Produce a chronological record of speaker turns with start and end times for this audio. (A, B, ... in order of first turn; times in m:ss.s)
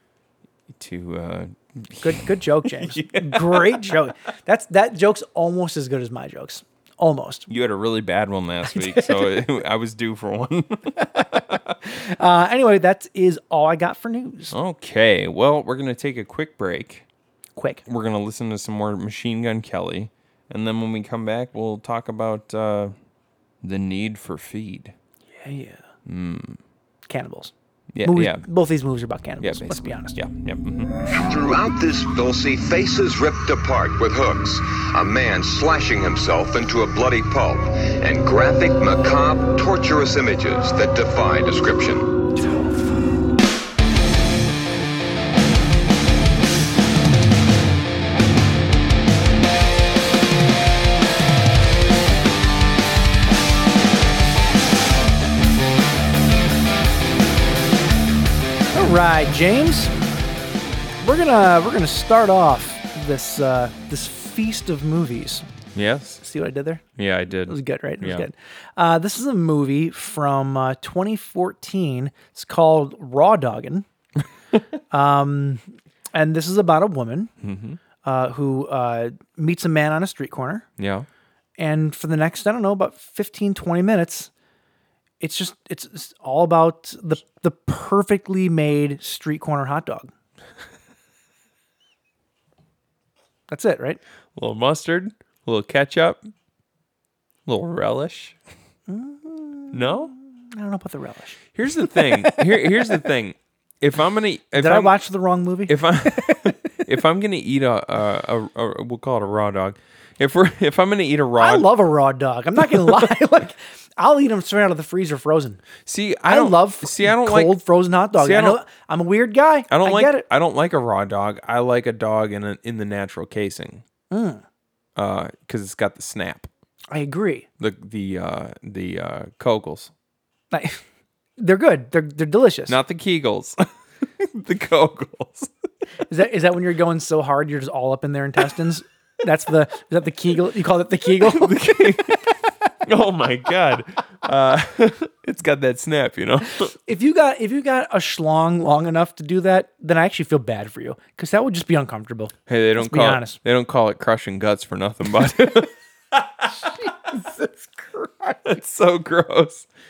0:00.8-0:04.0 A
0:02.0-0:07.5 B
0:07.5-0:11.7 A
0:08.7-0:09.4 B
0:11.0-0:14.5 B
0:14.5-0:17.0 A
0:17.6-0:17.8 B
0:17.8-0:22.9 A
0:23.6-0:24.9 A
0:25.4-0:25.8 B
0:26.0-0:26.6 A
0:27.1-0:30.2 B
0:27.9-0:28.4 A
0:29.4-0:30.9 A
0:31.1-0:42.2 C
0:58.7-0:59.9 B
1:01.0-1:05.4 B
1:05.7-1:06.2 A
1:06.2-1:06.8 B
1:07.0-1:08.3 A
1:07.4-1:13.8 B
1:14.9-1:17.3 B
1:17.4-1:17.8 A
1:18.0-1:20.6 B
1:20.8-1:21.1 A
1:21.6-1:24.3 B
1:25.2-1:30.1 B
1:33.5-1:34.0 B
1:34.4-1:36.2 A
1:37.4-1:38.4 A
1:38.9-1:43.1 B
1:39.7-1:40.1 A
1:41.5-1:45.0 A
1:44.5-1:46.7 B
1:45.7-1:51.7 A
1:51.4-1:55.6 B
1:55.8-1:57.6 A
1:56.2-2:00.2 B
1:58.1-1:58.6 A
1:59.7-2:03.8 A
2:04.1-2:04.4 B
2:05.0-2:06.5 A
2:06.9-2:07.5 B
2:07.6-2:09.9 A
2:10.5-2:10.8 B
2:11.4-2:12.8 B
2:12.7-2:13.6 A
2:14.2-2:15.5 A
2:16.1-2:22.2 B
2:21.2-2:22.3 A
2:22.8-2:26.7 A
2:26.8-2:33.4 B
2:32.5-2:36.7 A
2:36.5-2:38.5 B
2:38.4-2:39.7 A